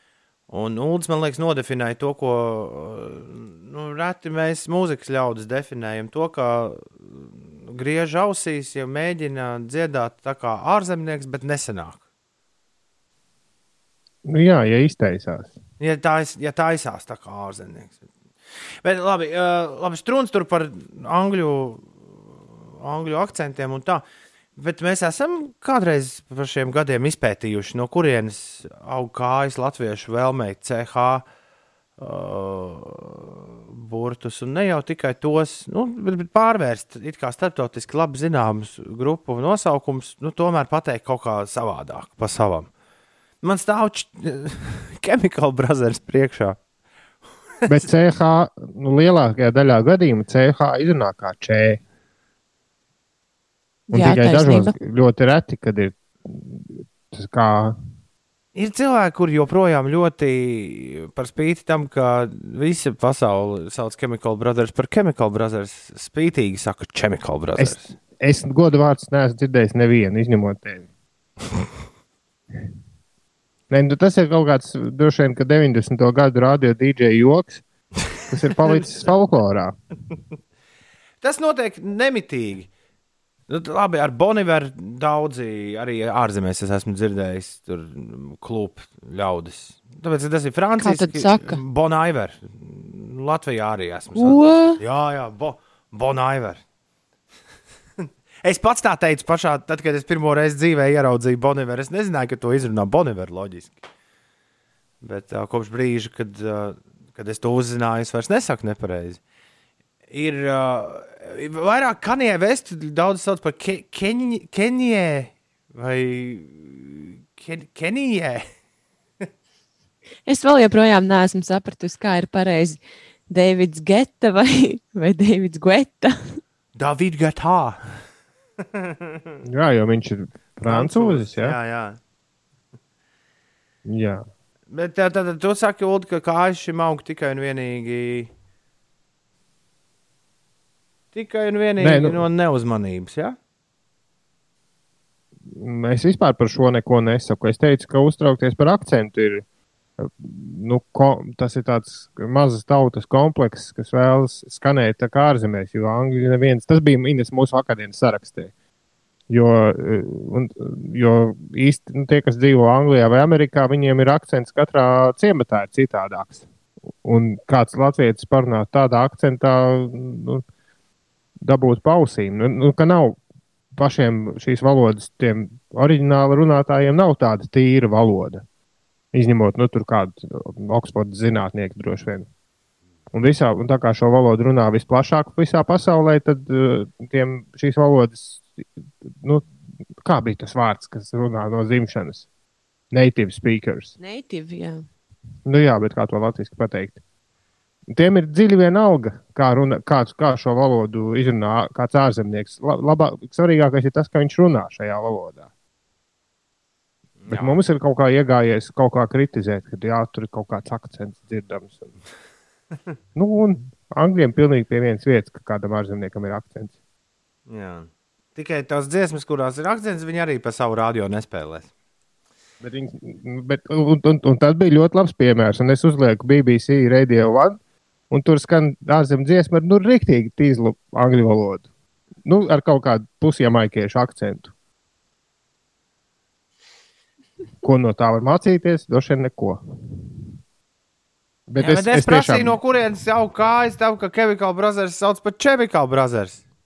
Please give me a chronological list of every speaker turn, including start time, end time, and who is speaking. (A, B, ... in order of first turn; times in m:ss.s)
0:00.5-0:12.0 A
0:14.3-0:15.6 B
0:15.8-0:18.0 A
0:18.8-0:24.0 A
0:24.6-0:31.3 A
0:32.0-0:42.7 A
0:43.4-0:46.6 A
0:47.7-0:51.8 B
0:53.9-0:54.8 C
0:53.9-0:57.8 B
0:58.6-1:07.9 A
1:07.6-1:10.9 B
1:13.7-1:17.6 B
1:18.3-1:19.8 B
1:18.6-1:18.9 A
1:21.2-1:22.7 A
1:23.5-1:36.6 A
1:30.8-1:31.6 C
1:34.2-1:34.8 C
1:38.4-1:43.8 A
1:45.0-1:49.2 A
1:50.1-1:58.4 A
2:00.3-2:06.4 C
2:06.8-2:08.0 A
2:08.7-2:09.2 A
2:09.4-2:11.6 B
2:10.6-2:12.0 A
2:13.9-2:14.2 B
2:14.7-2:18.3 A
2:21.1-2:23.4 A
2:21.8-2:22.2 B
2:25.5-2:29.4 B
2:30.0-2:38.5 B
2:39.3-2:46.5 B
2:47.0-2:50.4 B
2:51.4-2:53.2 B
2:53.8-2:58.4 B
2:59.1-3:02.3 B
3:03.1-3:09.5 B
3:10.0-3:12.3 B
3:12.9-3:13.9 B
3:14.0-3:14.8 C
3:15.5-3:17.0 B
3:17.9-3:25.5 B
3:27.2-3:27.6 A
3:27.3-3:31.9 B
3:33.2-3:36.7 B
3:37.5-3:41.7 A
3:42.6-3:47.6 B
3:48.1-3:51.7 B
3:52.2-3:54.5 B
3:57.6-3:59.6 B
4:01.5-4:02.6 B
4:01.6-4:06.4 A